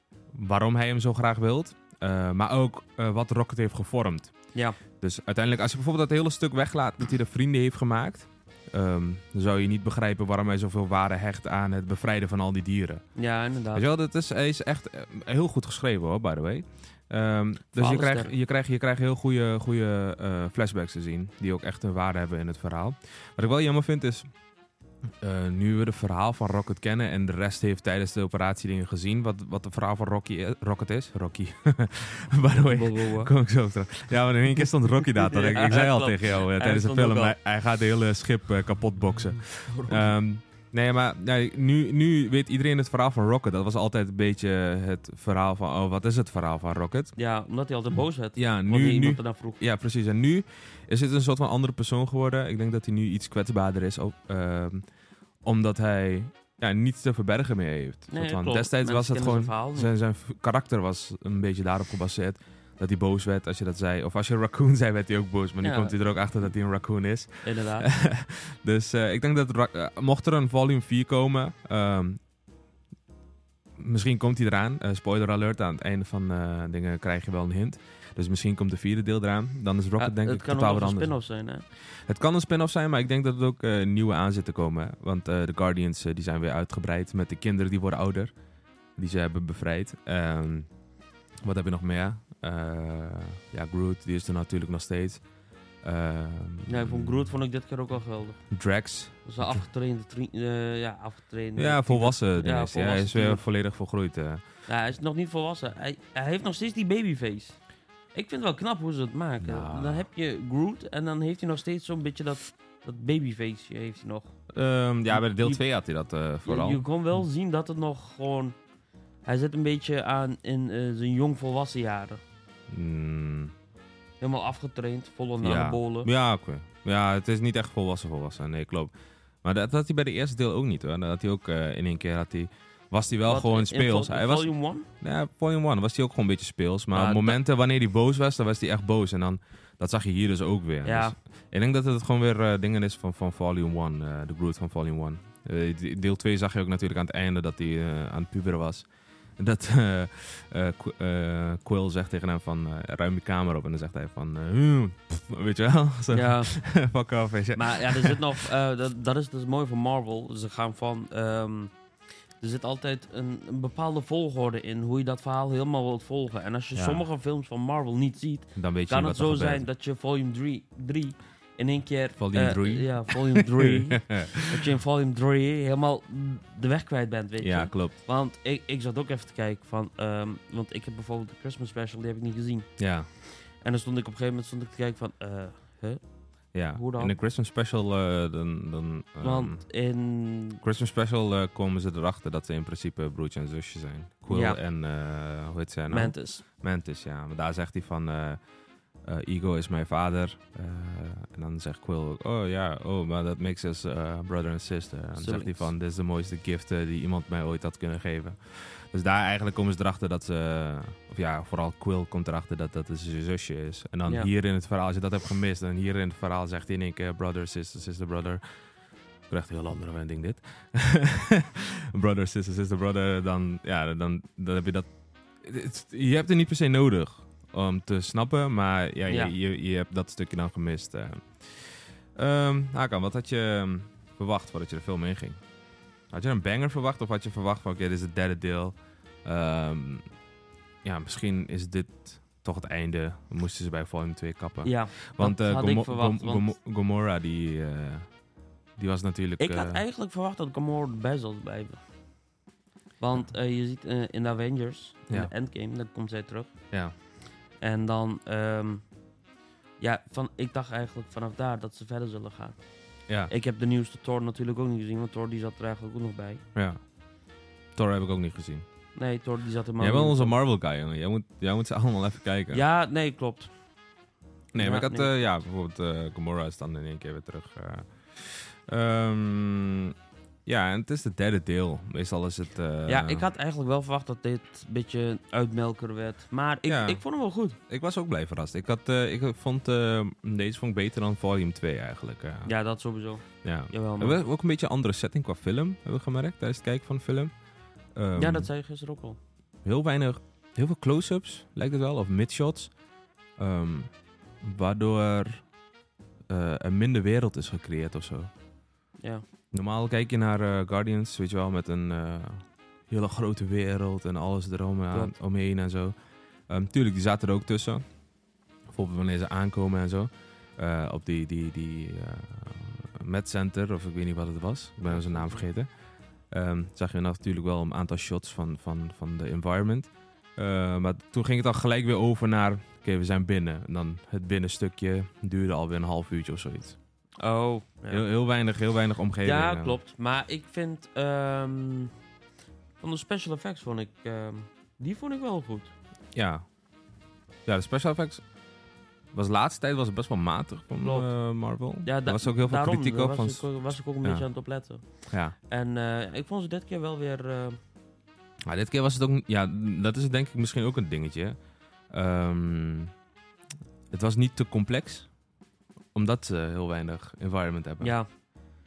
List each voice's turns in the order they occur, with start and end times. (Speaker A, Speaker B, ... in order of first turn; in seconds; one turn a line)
Speaker A: 0.3-4.3
Speaker A: 4.9-13.0
Speaker B: 13.2-13.9
Speaker A: 13.7-24.3
Speaker B: 17.8-18.3
Speaker A: 25.2-47.1
Speaker B: 32.7-33.3
Speaker B: 35.0-37.4
Speaker B: 39.7-40.1
Speaker B: 47.2-49.6
Speaker A: 48.4-54.8
Speaker A: 55.5-72.2
Speaker B: 58.1-59.9
Speaker B: 65.6-66.0
Speaker B: 67.4-67.9
Speaker A: 73.8-81.1
Speaker B: 80.0-81.7
Speaker A: 82.1-88.3
Speaker A: 89.0-90.7
Speaker A: 91.4-95.2
Speaker A: 95.8-97.3
Speaker B: 96.7-98.4
Speaker A: 98.5-99.6
Speaker B: 99.2-103.4
Speaker A: 101.6-104.4
Speaker B: 104.7-107.6
Speaker B: 108.1-114.3
Speaker A: 109.4-110.1
Speaker A: 114.5-116.8
Speaker B: 115.1-115.6
Speaker B: 116.5-118.6
Speaker B: 119.2-122.2
Speaker A: 122.7-123.5
Speaker B: 124.2-126.1
Speaker A: 125.4-148.9
Speaker B: 133.3-134.9
Speaker B: 136.9-137.4
Speaker B: 140.8-141.2
Speaker A: 149.4-158.4
Speaker B: 156.1-156.6
Speaker B: 157.6-161.7
Speaker B: 162.4-182.8
Speaker A: 166.8-167.0
Speaker A: 168.6-169.7
Speaker A: 172.2-174.6
Speaker A: 177.4-178.0
Speaker A: 182.8-183.1
Speaker B: 183.3-186.0
Speaker A: 186.5-189.6
Speaker B: 186.7-187.1
Speaker B: 189.2-190.6
Speaker A: 190.6-198.4
Speaker B: 194.3-194.6
Speaker B: 195.9-196.4
Speaker A: 199.0-218.4
Speaker B: 205.2-205.7
Speaker A: 219.3-224.9
Speaker A: 225.4-235.4
Speaker B: 229.1-229.3
Speaker A: 236.1-240.0
Speaker A: 240.8-248.1
Speaker B: 244.6-246.5
Speaker A: 248.8-249.8
Speaker B: 249.4-251.8
Speaker B: 253.0-256.5
Speaker B: 257.6-258.9
Speaker B: 259.8-262.6
Speaker B: 263.3-266.4
Speaker A: 266.6-266.8
Speaker A: 267.8-268.7
Speaker B: 268.9-270.4
Speaker A: 269.8-272.6
Speaker B: 272.5-273.5
Speaker A: 274.5-279.9
Speaker B: 274.6-275.1
Speaker A: 280.5-283.3
Speaker B: 282.9-287.6
Speaker A: 286.7-287.0
Speaker A: 287.6-292.5
Speaker B: 292.4-294.2
Speaker A: 293.4-297.3
Speaker A: 297.9-298.5
Speaker B: 298.2-299.2
Speaker A: 299.6-302.7
Speaker A: 303.4-305.4
Speaker A: 306.3-308.3
Speaker A: 309.5-315.9
Speaker A: 316.5-317.9
Speaker A: 318.7-325.7
Speaker B: 324.9-325.4
Speaker A: 326.3-336.8
Speaker B: 337.2-338.1
Speaker A: 337.9-339.8
Speaker B: 339.2-341.9
Speaker B: 342.8-345.7
Speaker A: 346.1-346.4
Speaker A: 347.5-348.2
Speaker A: 349.1-354.3
Speaker B: 350.8-351.1
Speaker B: 351.8-357.6
Speaker A: 355.1-355.4
Speaker A: 358.4-361.4
Speaker A: 361.9-362.9
Speaker A: 363.9-365.1
Speaker A: 365.9-367.9
Speaker B: 367.8-368.1